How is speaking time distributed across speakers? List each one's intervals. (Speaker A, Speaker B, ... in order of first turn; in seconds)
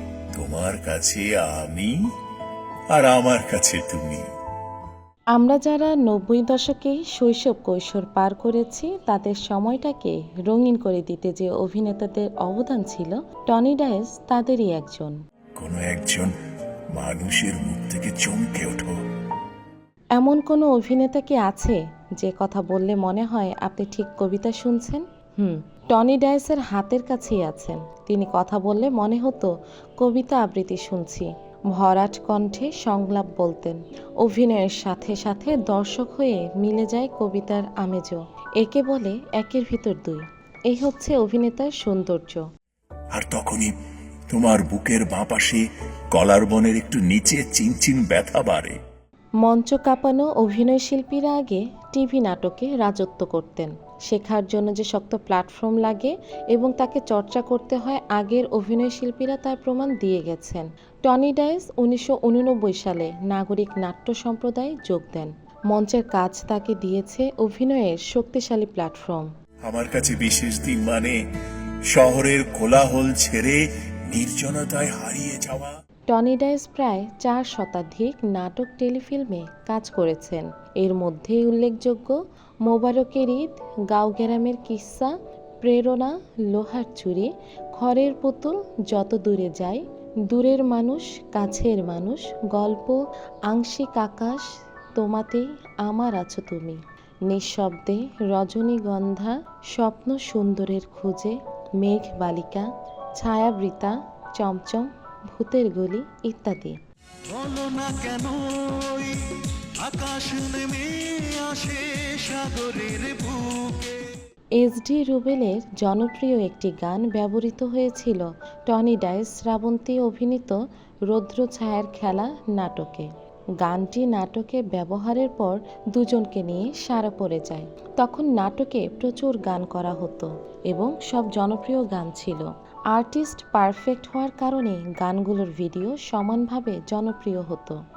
Speaker A: 0.4-1.9, 2.9-4.2, 15.6-16.3, 16.9-19.0, 43.1-43.7, 44.3-45.6, 46.1-48.8, 69.7-71.2, 71.9-75.7
Speaker B: 5.3-15.2, 20.2-42.4, 49.4-69.3, 76.1-106.8, 114.6-123.1, 123.6-137.8
Speaker C: 107.3-109.2, 109.8-114.1